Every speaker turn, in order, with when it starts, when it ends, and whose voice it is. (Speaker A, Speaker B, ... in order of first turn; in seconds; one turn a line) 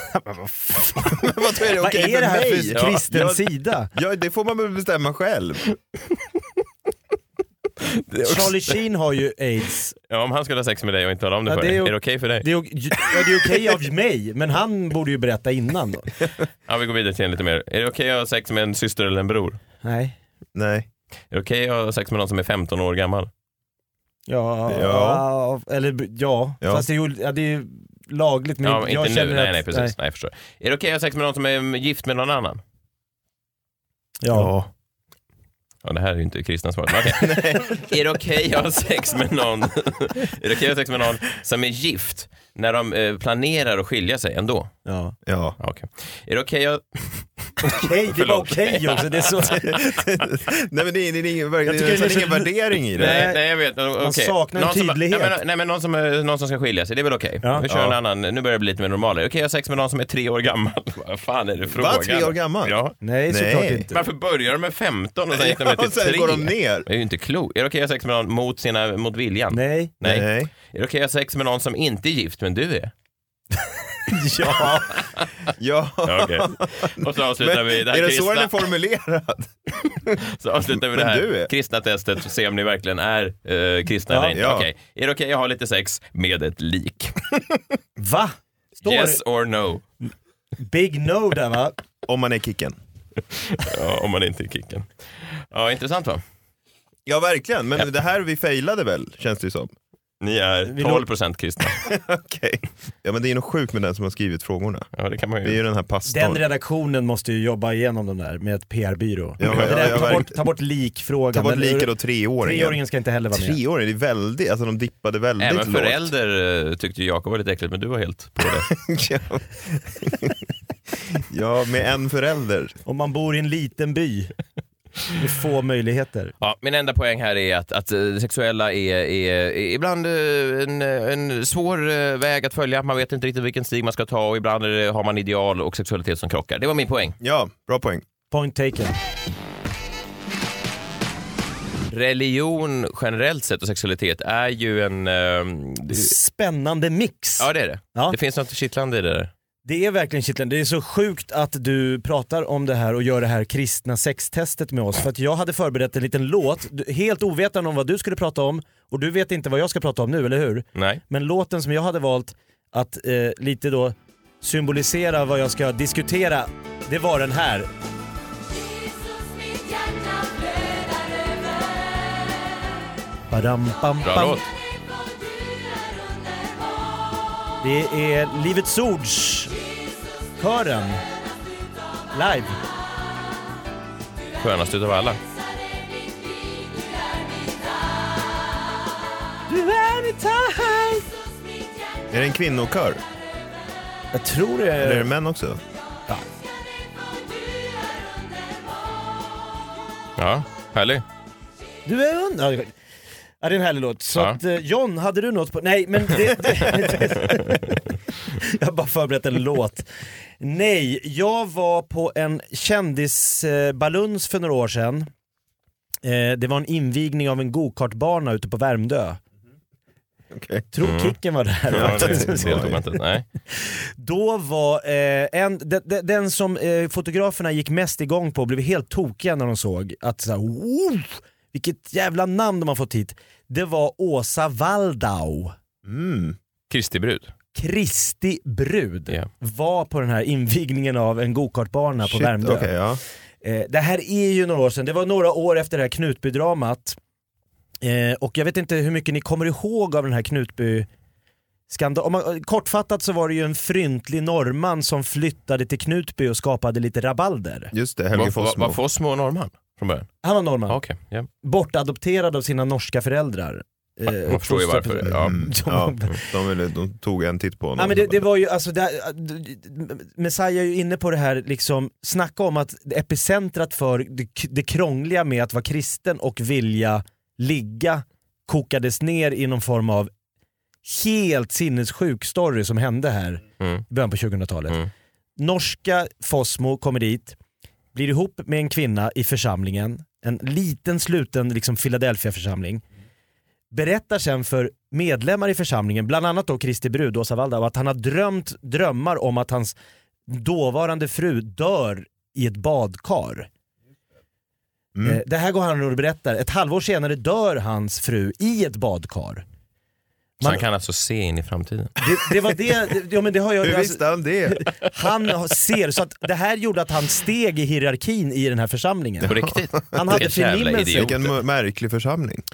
Speaker A: 0.1-1.3
Speaker B: 1.1-5.6
Speaker A: 1.8-3.9
Speaker C: 2.7-3.0
Speaker C: 7.9-8.8
Speaker A: 8.2-9.9
Speaker C: 10.1-12.5
Speaker A: 11.5-16.1
Speaker C: 16.7-19.6
Speaker A: 19.8-20.1
Speaker B: 20.5-20.9
Speaker C: 21.3-23.3
Speaker A: 24.3-29.9
Speaker B: 24.7-25.2
Speaker C: 28.6-32.6
Speaker A: 34.2-34.5
Speaker B: 34.3-34.7
Speaker C: 35.8-44.7
Speaker B: 37.1-37.8
Speaker A: 44.9-45.1
Speaker B: 45.2-45.5
Speaker C: 45.6-49.1
Speaker A: 47.6-50.0
Speaker B: 49.9-53.3
Speaker A: 51.6-53.4
Speaker C: 53.0-63.0
Speaker A: 54.0-55.3
Speaker B: 57.7-58.0
Speaker B: 61.7-62.8
Speaker A: 63.0-64.0
Speaker B: 63.3-63.8
Speaker C: 63.9-72.9
Speaker B: 65.3-66.9
Speaker A: 69.5-69.9
Speaker B: 70.0-70.5
Speaker A: 74.1-75.0
Speaker B: 75.5-80.2
Speaker C: 76.0-78.7
Speaker C: 80.2-87.2
Speaker B: 80.8-81.5
Speaker A: 84.1-84.4
Speaker B: 84.3-84.7
Speaker A: 88.0-89.2
Speaker C: 88.8-89.8
Speaker A: 90.6-91.8
Speaker B: 92.0-92.8
Speaker C: 93.4-96.2
Speaker B: 97.0-99.7
Speaker C: 100.2-101.9
Speaker A: 100.7-101.0
Speaker B: 101.8-104.9
Speaker C: 105.0-105.6
Speaker B: 105.4-106.4
Speaker A: 106.1-113.6
Speaker B: 109.4-110.4
Speaker B: 111.3-112.8
Speaker B: 113.3-116.0
Speaker C: 115.4-118.7
Speaker B: 118.4-120.4
Speaker B: 121.2-122.8
Speaker A: 122.8-124.3
Speaker A: 125.1-126.3
Speaker C: 126.4-137.2
Speaker B: 137.2-138.0
Speaker A: 138.3-139.0
Speaker C: 141.9-146.1
Speaker A: 145.9-148.2
Speaker C: 147.4-149.3
Speaker A: 149.6-167.7
Speaker C: 160.7-161.0
Speaker A: 173.3-174.4
Speaker C: 174.0-174.5
Speaker A: 177.6-179.5
Speaker A: 180.4-181.0
Speaker A: 182.1-182.6
Speaker C: 184.4-185.2
Speaker A: 189.5-191.1
Speaker B: 192.1-193.0
Speaker A: 194.1-195.1
Speaker B: 194.8-195.6
Speaker C: 200.2-201.0
Speaker A: 201.8-202.7
Speaker A: 203.4-209.9
Speaker C: 207.3-207.6
Speaker A: 210.4-215.1
Speaker A: 216.0-219.2
Speaker B: 220.3-220.7
Speaker A: 220.7-222.7
Speaker C: 220.8-221.2
Speaker C: 221.7-223.2
Speaker B: 221.7-222.8
Speaker A: 223.6-235.6
Speaker B: 235.8-236.3
Speaker C: 236.7-237.3
Speaker A: 237.5-242.7
Speaker B: 242.1-243.0
Speaker A: 243.4-247.0
Speaker A: 247.8-250.9
Speaker A: 251.7-257.7
Speaker B: 257.7-258.8
Speaker C: 258.1-260.1
Speaker A: 260.2-260.8
Speaker C: 260.7-261.3
Speaker A: 261.4-266.2
Speaker C: 264.1-265.4
Speaker B: 265.1-268.2
Speaker A: 267.8-280.1
Speaker A: 280.8-284.8
Speaker A: 285.4-287.4
Speaker A: 287.9-292.8
Speaker A: 293.7-299.7
Speaker A: 300.3-303.5
Speaker B: 304.9-305.2
Speaker A: 305.0-309.4
Speaker C: 310.4-311.9
Speaker A: 312.0-319.3
Speaker B: 313.6-314.7
Speaker C: 319.2-321.3
Speaker A: 319.9-321.1
Speaker B: 320.8-322.4